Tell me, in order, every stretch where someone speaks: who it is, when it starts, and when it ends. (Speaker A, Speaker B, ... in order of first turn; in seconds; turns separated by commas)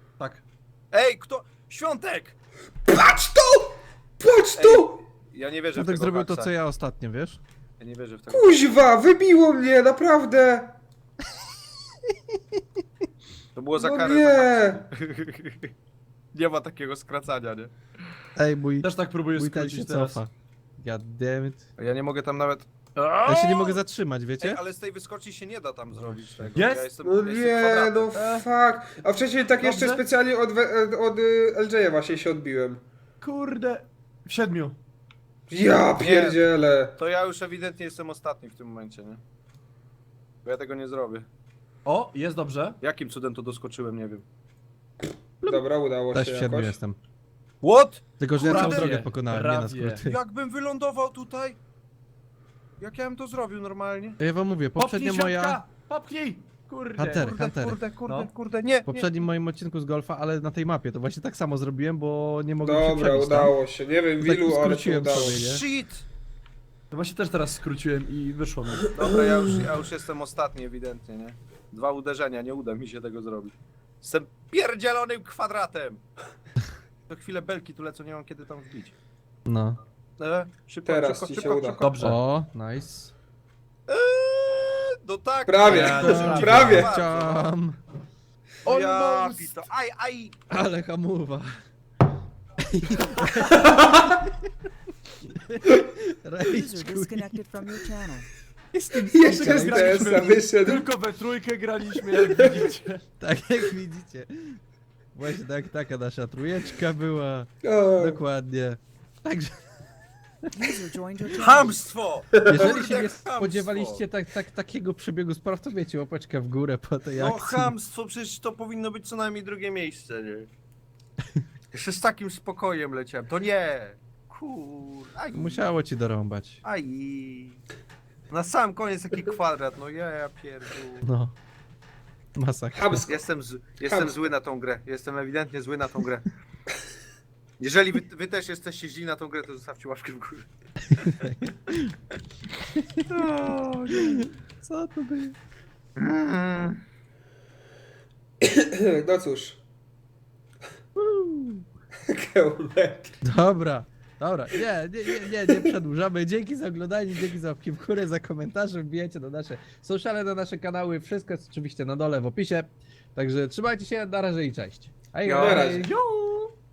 Speaker A: 0.2-0.4, Speaker B: 0.9-2.4, Speaker C: 2.9-5.0, Speaker B: 4.6-6.5, Speaker D: 5.8-7.4, Speaker B: 7.8-8.6, Speaker C: 8.3-10.8, Speaker B: 13.6-15.7, Speaker C: 13.8-14.8, Speaker B: 16.3-17.7, Speaker D: 18.4-21.7, Speaker A: 18.8-20.2, Speaker B: 21.8-23.8, Speaker D: 23.2-24.6, Speaker B: 24.4-28.1, Speaker D: 25.9-26.6, Speaker A: 26.6-26.9, Speaker C: 27.0-32.8, Speaker A: 28.1-28.4, Speaker A: 29.6-30.0, Speaker A: 33.2-34.8, Speaker C: 35.5-36.9, Speaker B: 36.0-36.5, Speaker B: 37.0-39.2, Speaker B: 40.5-41.3, Speaker A: 41.9-42.8, Speaker B: 42.8-44.2, Speaker C: 45.4-46.8, Speaker D: 45.4-47.0, Speaker B: 47.6-49.0, Speaker D: 48.2-50.1, Speaker A: 48.4-50.1, Speaker B: 50.0-51.6, Speaker B: 52.8-54.2, Speaker D: 54.2-55.6, Speaker A: 54.8-57.3, Speaker D: 57.0-57.8, Speaker B: 57.2-59.1, Speaker D: 58.9-63.6, Speaker C: 62.6-65.4, Speaker D: 64.2-65.6, Speaker B: 65.3-66.1, Speaker A: 66.9-68.9, Speaker B: 68.9-76.0, Speaker C: 69.1-69.6, Speaker B: 77.1-79.0, Speaker D: 79.5-79.8, Speaker B: 80.2-81.9, Speaker C: 80.9-81.8, Speaker A: 81.8-82.2, Speaker D: 82.0-83.1, Speaker B: 83.9-87.5, Speaker C: 85.5-87.0, Speaker D: 85.7-87.8, Speaker A: 85.7-86.9, Speaker B: 88.7-90.4, Speaker A: 88.7-89.7, Speaker D: 90.5-91.6, Speaker D: 92.7-94.3, Speaker C: 93.6-94.2, Speaker D: 95.3-97.4, Speaker E: 96.4-98.3, Speaker D: 98.7-100.3, Speaker C: 99.0-100.9, Speaker A: 99.2-103.0, Speaker C: 102.2-102.5, Speaker D: 103.2-104.6, Speaker D: 105.1-109.6, Speaker C: 107.6-108.2, Speaker E: 110.5-111.9, Speaker B: 111.3-114.0, Speaker C: 112.4-112.7, Speaker D: 112.5-117.7, Speaker B: 117.2-120.5, Speaker B: 121.7-125.7, Speaker D: 125.3-126.6, Speaker B: 126.6-127.6, Speaker B: 128.3-131.1, Speaker D: 131.0-131.3, Speaker D: 132.4-133.1, Speaker C: 132.8-133.2, Speaker B: 133.1-136.3, Speaker C: 133.8-134.3, Speaker B: 137.6-140.5, Speaker D: 140.9-141.9, Speaker D: 142.8-143.1, Speaker B: 143.1-144.3, Speaker D: 144.2-145.3, Speaker B: 146.0-146.8, Speaker C: 148.5-149.6, Speaker D: 151.0-151.7, Speaker C: 152.1-153.2, Speaker D: 153.2-165.9, Speaker B: 165.3-165.6, Speaker C: 165.3-165.9, Speaker A: 165.6-166.5